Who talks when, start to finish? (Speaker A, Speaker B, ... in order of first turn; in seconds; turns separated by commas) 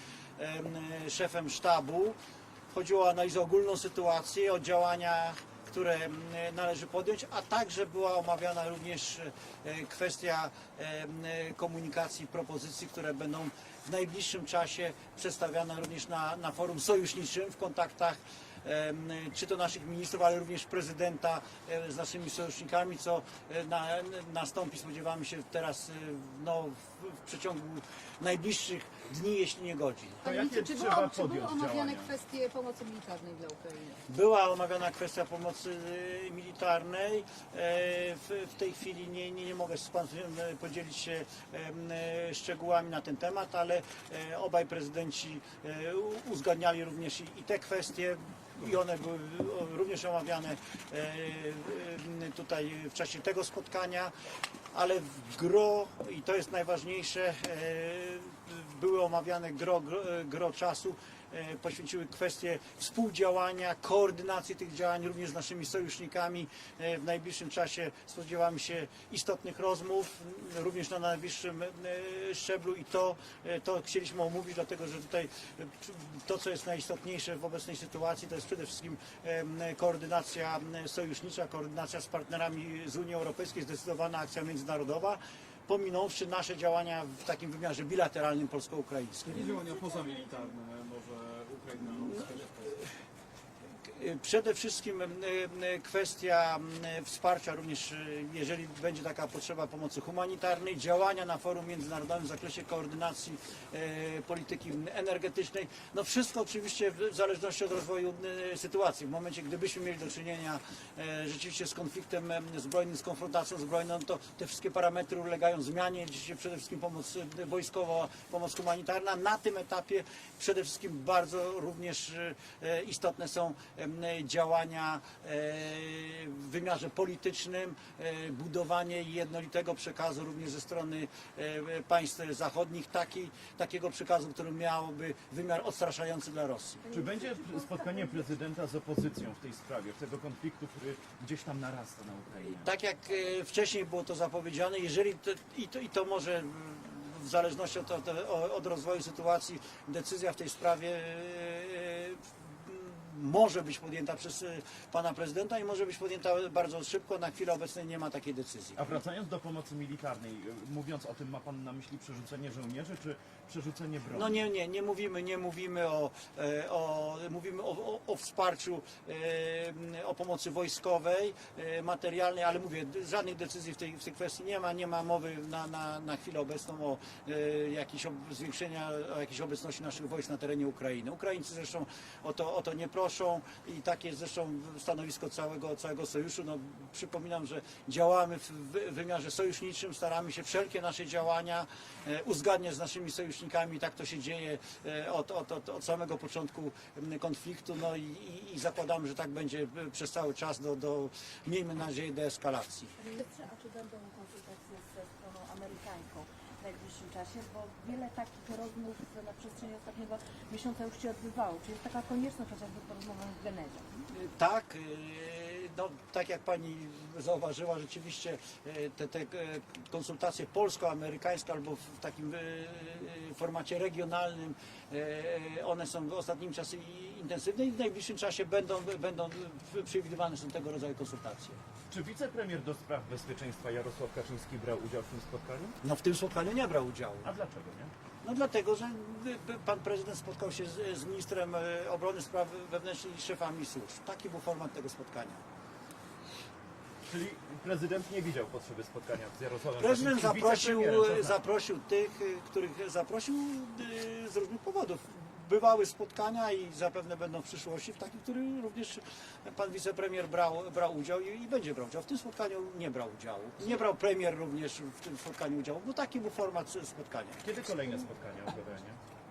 Speaker A: 0.4-2.2, Speaker A: 2.7-30.2, Speaker B: 30.2-32.1, Speaker C: 30.2-34.0, Speaker A: 34.1-54.1, Speaker A: 54.7-89.6, Speaker D: 89.3-92.8, Speaker E: 89.4-90.5, Speaker A: 91.8-92.9, Speaker A: 93.8-136.8, Speaker E: 136.8-138.2, Speaker B: 136.9-142.7, Speaker A: 142.5-159.0, Speaker B: 158.8-164.3, Speaker A: 164.1-202.9, Speaker E: 203.0-214.0, Speaker A: 214.1-231.6, Speaker B: 231.9-235.8, Speaker A: 235.8-237.3, Speaker B: 237.2-237.9, Speaker A: 238.2-245.4, Speaker B: 247.1-251.4, Speaker A: 249.8-267.4, Speaker B: 267.4-269.0